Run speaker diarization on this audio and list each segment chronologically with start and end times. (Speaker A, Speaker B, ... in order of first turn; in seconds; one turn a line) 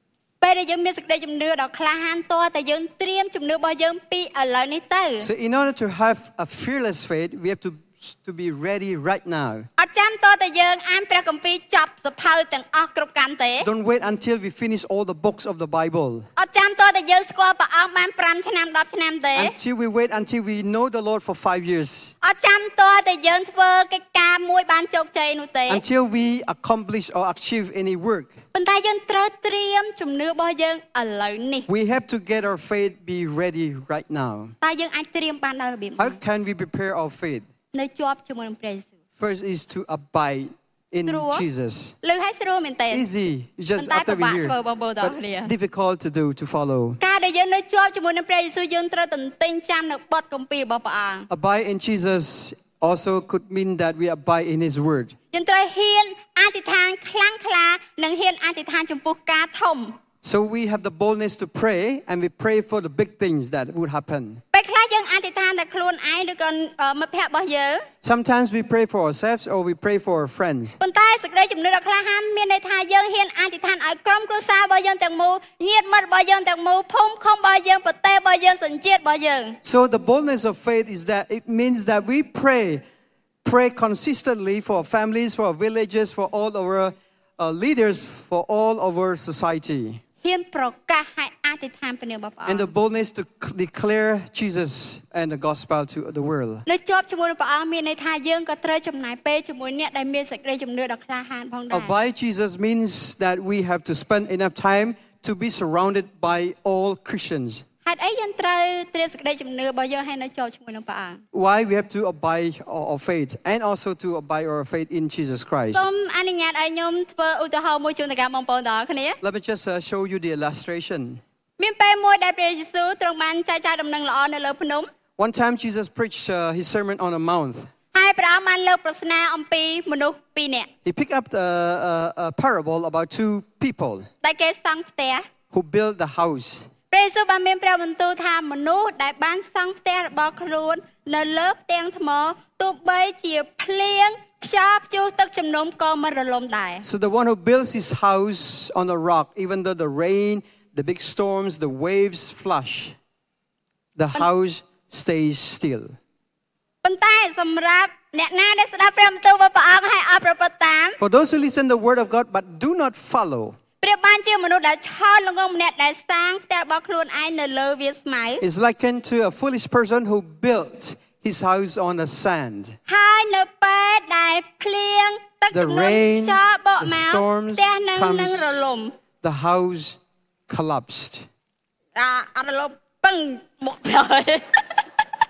Speaker A: 0.4-5.3
Speaker B: 5.2-9.7
Speaker A: 9.8-13.7
Speaker B: 13.6-16.3
Speaker A: 16.4-19.5
Speaker B: 19.3-22.1
Speaker A: 22.2-25.8
Speaker B: 25.7-28.4
Speaker A: 28.5-31.7
Speaker B: 31.7-34.5
Speaker A: 34.6-36.2
Speaker B: 36.0-37.4
Speaker A: 37.7-38.9
Speaker B: 39.2-42.0
Speaker A: 41.1-41.4
Speaker A: 42.0-43.0
Speaker B: 42.9-47.0
Speaker A: 43.8-45.5
Speaker A: 47.0-51.3
Speaker B: 51.3-55.1
Speaker A: 55.3-60.0
Speaker B: 60.2-64.4
Speaker A: 64.5-67.9
Speaker B: 68.0-70.8
Speaker A: 70.8-79.6
Speaker B: 79.6-82.8
Speaker B: 83.4-90.0
Speaker A: 90.2-92.7
Speaker B: 92.5-96.6
Speaker A: 96.7-101.9
Speaker B: 101.7-107.6
Speaker A: 107.8-111.2
Speaker B: 111.3-115.9
Speaker A: 115.7-119.2
Speaker B: 119.2-121.2
Speaker A: 121.6-124.9
Speaker B: 125.2-127.7
Speaker A: 127.9-130.7
Speaker B: 130.8-134.1
Speaker A: 134.2-135.2
Speaker B: 135.5-136.7
Speaker A: 136.9-146.8
Speaker B: 146.8-152.9
Speaker B: 153.9-155.9
Speaker A: 156.8-161.0
Speaker B: 161.0-163.6
Speaker A: 163.8-168.4
Speaker B: 168.4-172.8
Speaker A: 172.9-178.9
Speaker B: 175.5-178.6
Speaker B: 179.2-181.3
Speaker A: 181.9-184.8